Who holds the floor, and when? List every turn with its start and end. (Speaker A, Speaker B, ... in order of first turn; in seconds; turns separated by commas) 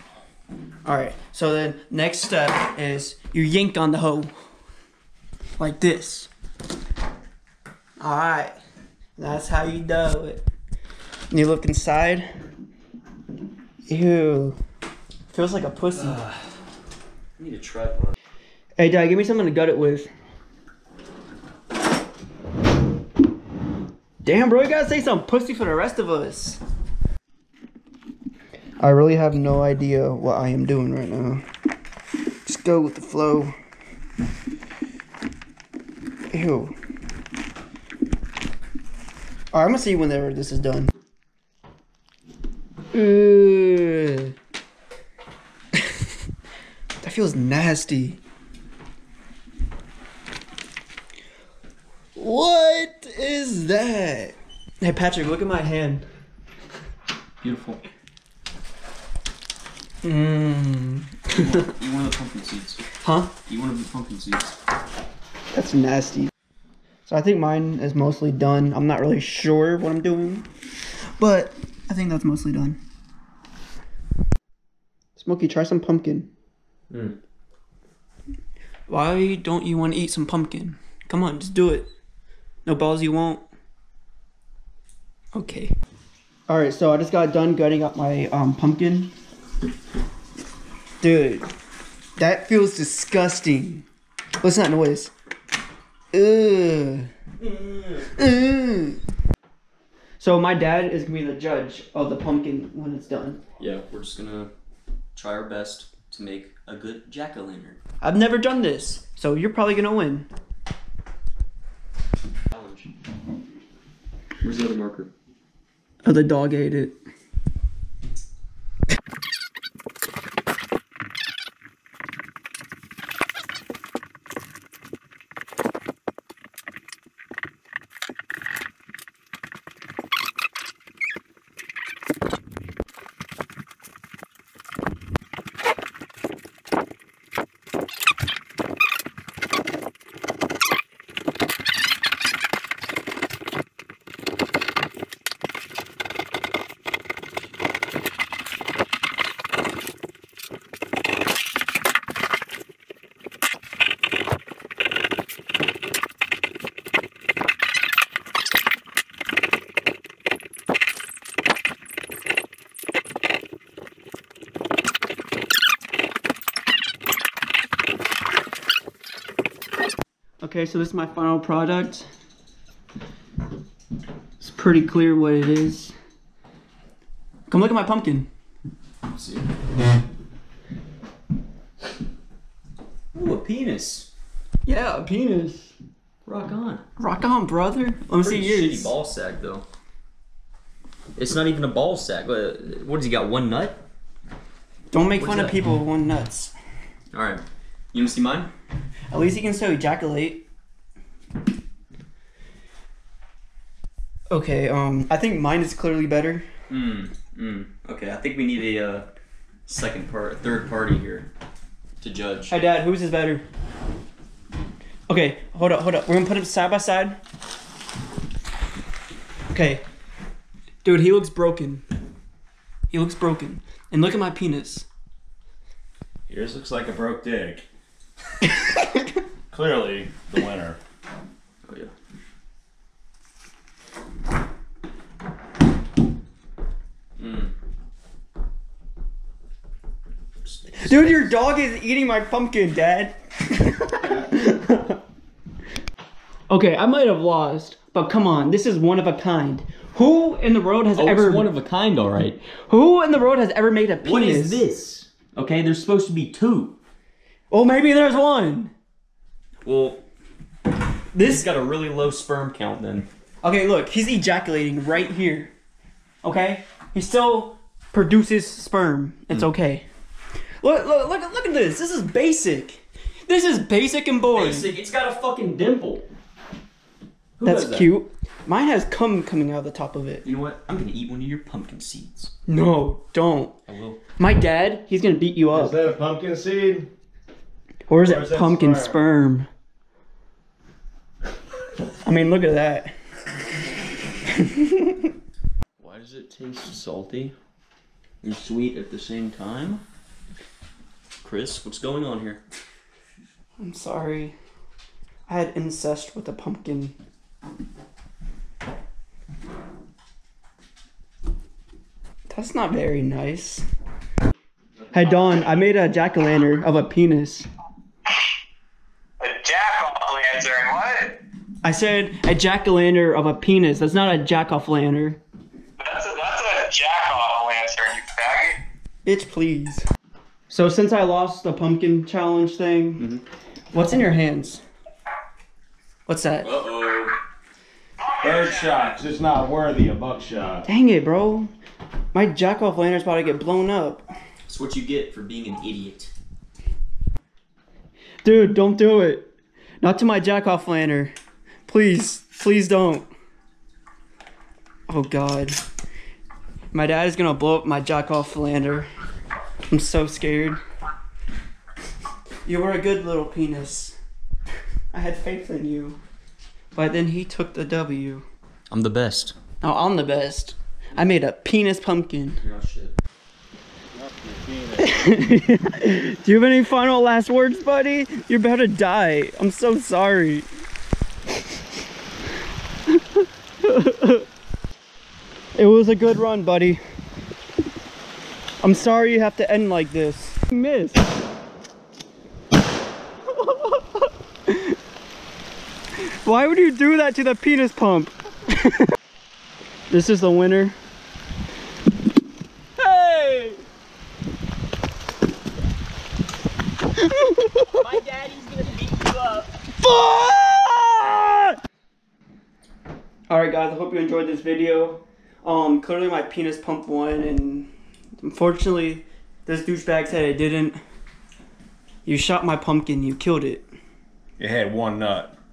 Speaker A: 0.8-4.3, Speaker A: 5.6-6.3, Speaker A: 8.0-8.6, Speaker A: 9.2-10.5, Speaker A: 11.3-12.3, Speaker A: 13.9-14.6, Speaker A: 15.3-16.2, Speaker B: 16.0-16.5, Speaker B: 17.4-18.1, Speaker A: 18.8-20.1, Speaker A: 24.2-26.6, Speaker A: 28.8-31.4, Speaker A: 32.5-33.5, Speaker A: 36.3-36.7, Speaker A: 39.5-40.9, Speaker A: 42.9-44.3, Speaker A: 45.7-46.1, Speaker A: 47.0-48.2, Speaker A: 52.2-56.1, Speaker B: 57.4-57.8, Speaker A: 60.0-61.7, Speaker B: 61.3-62.9, Speaker A: 63.0-63.3, Speaker B: 63.4-64.5, Speaker A: 65.5-66.3, Speaker A: 67.1-70.5, Speaker A: 71.2-72.8, Speaker A: 75.2-76.3, Speaker B: 76.9-77.2, Speaker A: 78.9-81.9, Speaker A: 82.7-83.5, Speaker A: 85.3-85.7, Speaker A: 86.5-89.1, Speaker A: 91.0-91.5, Speaker A: 92.2-93.8, Speaker A: 94.4-95.1, Speaker A: 96.1-97.1, Speaker B: 97.4-98.1, Speaker A: 98.1-99.0, Speaker A: 100.2-103.4, Speaker B: 103.6-104.5, Speaker B: 105.2-107.8, Speaker A: 108.0-110.3, Speaker B: 112.5-112.9, Speaker B: 114.4-115.1, Speaker A: 116.0-117.0, Speaker A: 170.4-172.1, Speaker A: 174.4-175.9, Speaker A: 177.5-178.3, Speaker B: 179.1-179.5, Speaker B: 183.1-184.1, Speaker A: 184.7-185.7, Speaker B: 186.3-186.8, Speaker A: 187.0-188.9, Speaker B: 188.2-189.7, Speaker B: 191.2-193.8, Speaker A: 194.9-196.5, Speaker B: 195.2-195.6, Speaker B: 197.1-198.5, Speaker A: 199.1-200.4, Speaker A: 204.3-206.4, Speaker B: 206.7-209.1, Speaker B: 209.7-211.3, Speaker B: 212.0-212.6, Speaker A: 212.5-213.4, Speaker A: 215.1-217.2, Speaker A: 219.5-219.8, Speaker A: 220.8-221.8, Speaker A: 222.9-224.9, Speaker C: 226.3-227.7, Speaker C: 229.5-230.8, Speaker B: 231.6-231.9, Speaker B: 237.2-237.5, Speaker B: 240.4-241.3, Speaker A: 240.8-245.0, Speaker A: 246.5-251.5, Speaker B: 251.0-252.4, Speaker A: 252.5-254.6, Speaker B: 254.0-256.8, Speaker A: 257.5-258.7, Speaker B: 259.6-260.0, Speaker A: 261.1-261.5, Speaker B: 261.2-263.1, Speaker A: 263.4-265.5, Speaker A: 266.2-269.9, Speaker A: 270.6-274.7, Speaker B: 274.4-276.1, Speaker B: 277.4-277.9, Speaker A: 277.4-280.2, Speaker B: 280.2-282.3, Speaker A: 282.5-283.6, Speaker B: 283.7-284.0, Speaker A: 284.2-285.8, Speaker C: 285.5-286.9, Speaker A: 287.9-289.5, Speaker C: 288.0-289.0, Speaker A: 292.0-292.9, Speaker A: 294.3-295.1, Speaker B: 295.8-297.4, Speaker B: 298.2-299.8, Speaker B: 301.2-302.4, Speaker A: 303.6-304.4, Speaker A: 305.3-306.9, Speaker A: 312.3-313.6, Speaker A: 314.9-317.5, Speaker D: 319.2-321.2, Speaker A: 321.6-325.2, Speaker D: 325.8-328.6, Speaker A: 329.1-329.9, Speaker A: 330.5-333.1, Speaker A: 333.7-334.6, Speaker A: 336.1-336.5, Speaker B: 336.4-337.2, Speaker D: 338.1-338.7, Speaker C: 338.2-340.7, Speaker A: 340.7-341.5, Speaker A: 342.1-344.1, Speaker B: 344.5-346.1, Speaker A: 348.2-351.1, Speaker A: 351.7-353.1, Speaker A: 354.9-355.6, Speaker A: 356.7-358.9, Speaker A: 359.7-360.6, Speaker A: 362.4-364.0, Speaker A: 364.9-366.0, Speaker A: 366.7-368.2, Speaker B: 368.7-369.4, Speaker A: 369.6-372.4, Speaker B: 372.4-372.9, Speaker C: 373.9-374.9, Speaker A: 374.8-380.5, Speaker A: 382.9-384.3, Speaker A: 385.6-386.8, Speaker A: 388.6-391.1, Speaker A: 393.3-394.8, Speaker A: 396.0-398.9, Speaker A: 399.9-400.8, Speaker B: 402.8-403.6, Speaker A: 407.0-407.7, Speaker B: 407.7-409.5, Speaker A: 409.8-411.6, Speaker A: 413.3-420.8, Speaker A: 422.1-423.7, Speaker C: 424.4-425.3